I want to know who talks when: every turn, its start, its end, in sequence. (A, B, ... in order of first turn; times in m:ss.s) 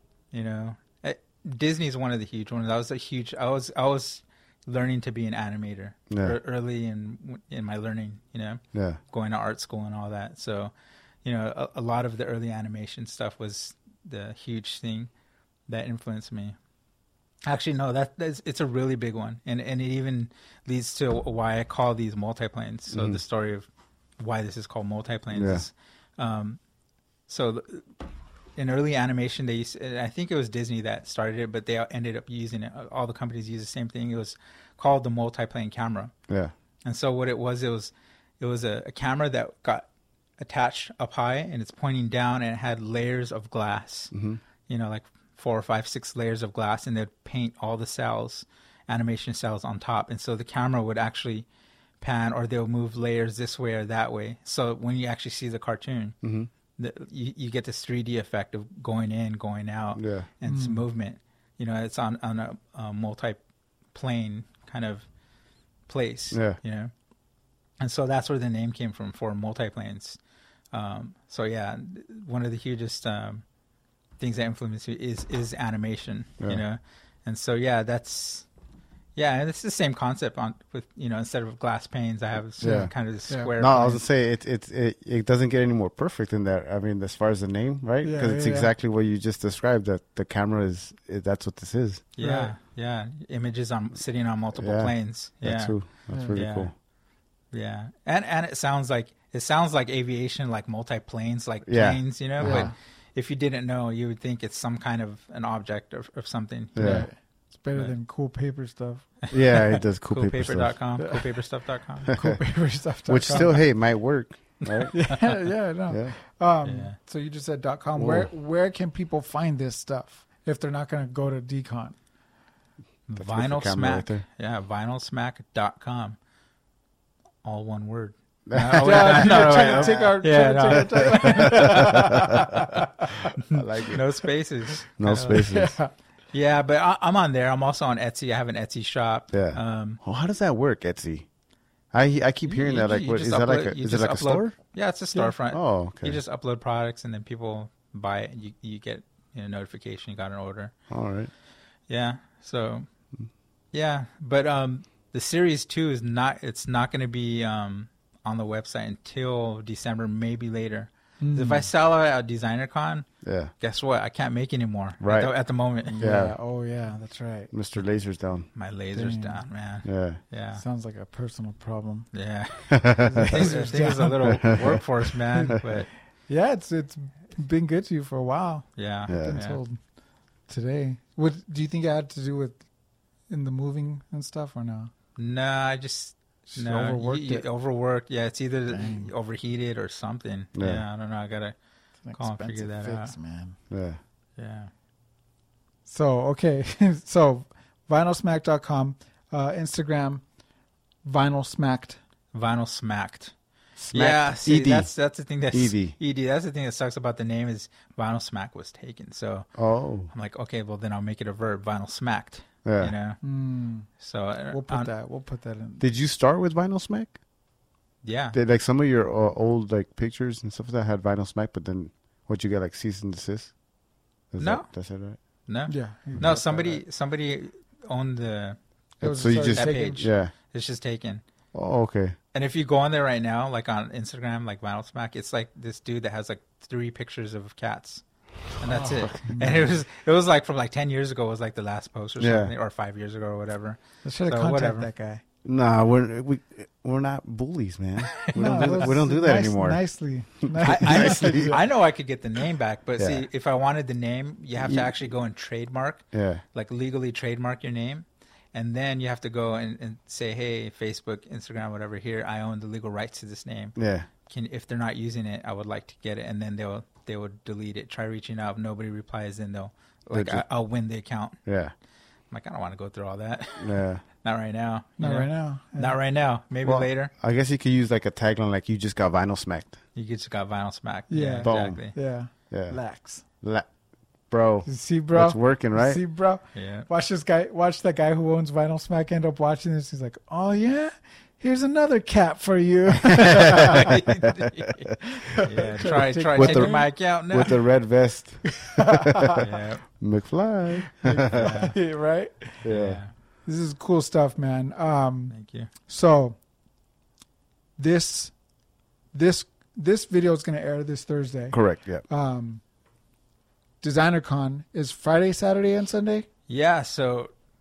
0:00.3-0:10.7 A
0:06.1-0:06.4 B
0:08.7-0:09.0 B
0:11.2-0:15.1 A
0:15.7-0:16.6 A
0:17.5-0:23.7 A
0:22.9-0:23.2 B
0:24.2-0:26.6 A
0:25.3-0:25.7 B
0:27.3-0:27.9 A
0:28.6-0:36.1 A
0:36.8-0:39.9 A
0:40.4-0:44.1 A
0:44.1-0:44.4 B
0:44.7-0:51.5 A
0:52.0-0:56.2 A
0:56.2-0:56.5 B
0:56.8-1:03.4 A
1:00.0-1:00.3 B
1:00.4-1:00.8 C
1:03.9-1:05.1 A
1:05.9-1:06.9 A
1:06.3-1:06.6 B
1:07.8-1:10.2 A
1:10.7-1:13.4 A
1:14.2-1:18.5 A
1:19.2-1:24.0 A
1:22.6-1:22.9 B
1:23.6-1:32.0 B
1:28.0-1:28.7 C
1:32.2-1:36.7 A
1:32.2-1:32.5 C
1:34.5-1:36.7 B
1:36.1-1:36.4 C
1:37.5-1:47.1 A
1:41.6-1:42.7 B
1:42.4-1:42.7 C
1:46.8-1:47.1 B
1:46.8-1:49.2 C
1:49.3-1:52.1 A
1:49.3-1:50.7 B
1:52.1-1:53.6 C
1:52.1-1:52.4 B
1:53.1-1:54.9 B
1:54.6-1:55.3 A
1:54.9-2:02.0 C
1:55.9-1:56.2 B
1:56.6-1:57.0 A
1:58.0-1:58.3 B
2:03.1-2:06.2 A
2:03.2-2:04.2 B
2:07.4-2:15.6 A
2:08.5-2:10.1 B
2:08.7-2:13.1 C
2:10.8-2:12.4 B
2:13.5-2:14.0 B
2:15.0-2:15.8 B
2:15.3-2:15.9 C
2:16.3-2:20.0 A
2:19.3-2:21.3 B
2:21.9-2:24.6 B
2:22.5-2:30.7 A
2:25.5-2:26.2 B
2:30.9-2:31.3 B
2:31.9-2:32.9 A
2:33.7-2:43.1 A
2:41.2-2:41.7 C
2:43.2-2:43.5 B
2:43.6-2:46.0 A
2:45.0-2:45.3 B
2:45.9-2:47.5 C
2:46.0-2:46.4 B
2:47.5-2:48.5 B
2:48.6-2:50.6 A
2:48.9-2:49.5 C
2:49.8-2:50.2 B
2:50.6-2:52.1 C
2:52.1-2:55.9 A
2:52.7-2:53.5 B
2:53.0-2:54.4 C
2:54.2-2:54.8 B
2:55.4-2:55.6 C
2:56.3-2:59.8 C
2:58.8-2:59.6 A
2:59.1-2:59.4 B
3:00.5-3:02.6 C
3:03.3-3:04.9 C
3:05.2-3:11.6 A
3:06.5-3:07.5 C
3:08.7-3:09.1 C
3:10.6-3:10.8 B
3:12.0-3:13.6 C
3:12.1-3:13.2 A
3:13.7-3:14.0 B
3:14.4-3:14.7 A
3:15.9-3:20.2 C
3:21.0-3:22.0 C
3:22.3-3:23.3 A
3:23.8-3:24.9 B
3:23.9-3:29.5 A
3:25.5-3:26.0 B
3:29.6-3:30.1 B
3:30.1-3:33.2 A
3:32.6-3:33.0 B
3:33.2-3:33.9 C
3:33.9-3:34.9 A
3:34.5-3:35.8 C
3:35.8-3:37.2 B
3:38.0-3:38.4 A
3:38.3-3:43.5 B
3:44.3-3:45.2 B
3:44.4-3:44.7 A
3:45.5-3:48.6 A
3:45.7-3:46.8 C
3:49.0-3:50.1 C
3:49.0-3:50.3 B
3:49.2-3:51.2 A
3:51.5-3:52.2 B
3:52.3-3:58.0 A
3:58.6-4:04.9 A
3:58.6-3:59.8 C
4:02.2-4:02.5 B
4:04.0-4:05.2 C
4:05.4-4:09.8 B
4:08.1-4:08.9 A
4:08.3-4:11.6 C
4:10.4-4:11.6 B
4:10.6-4:31.4 A
4:13.0-4:13.2 B
4:14.6-4:14.9 B
4:16.1-4:16.4 B
4:23.8-4:24.1 B
4:30.1-4:30.4 B
4:31.5-4:31.7 B
4:32.3-4:37.1 A
4:33.6-4:34.0 B
4:35.0-4:36.0 C
4:36.6-4:39.8 B
4:40.0-4:42.0 A
4:41.1-4:43.2 C
4:41.4-4:41.8 B
4:42.5-4:42.8 B
4:43.4-4:43.7 B
4:44.3-4:46.0 B
4:44.6-4:53.9 C
4:46.5-4:46.9 A
4:53.1-4:54.3 B
4:53.5-4:57.6 A
4:55.0-4:56.9 C
4:56.3-4:59.4 B
4:58.6-4:59.5 C
4:59.4-4:59.9 A
5:00.0-5:01.5 B
5:00.8-5:02.7 C
5:01.3-5:01.8 A
5:02.6-5:03.0 B
5:02.7-5:03.1 A
5:03.4-5:05.4 C
5:05.3-5:05.7 A
5:05.9-5:06.4 C
5:07.8-5:08.4 C
5:09.1-5:12.6 C
5:11.5-5:12.0 B
5:13.8-5:16.3 C
5:16.5-5:17.3 A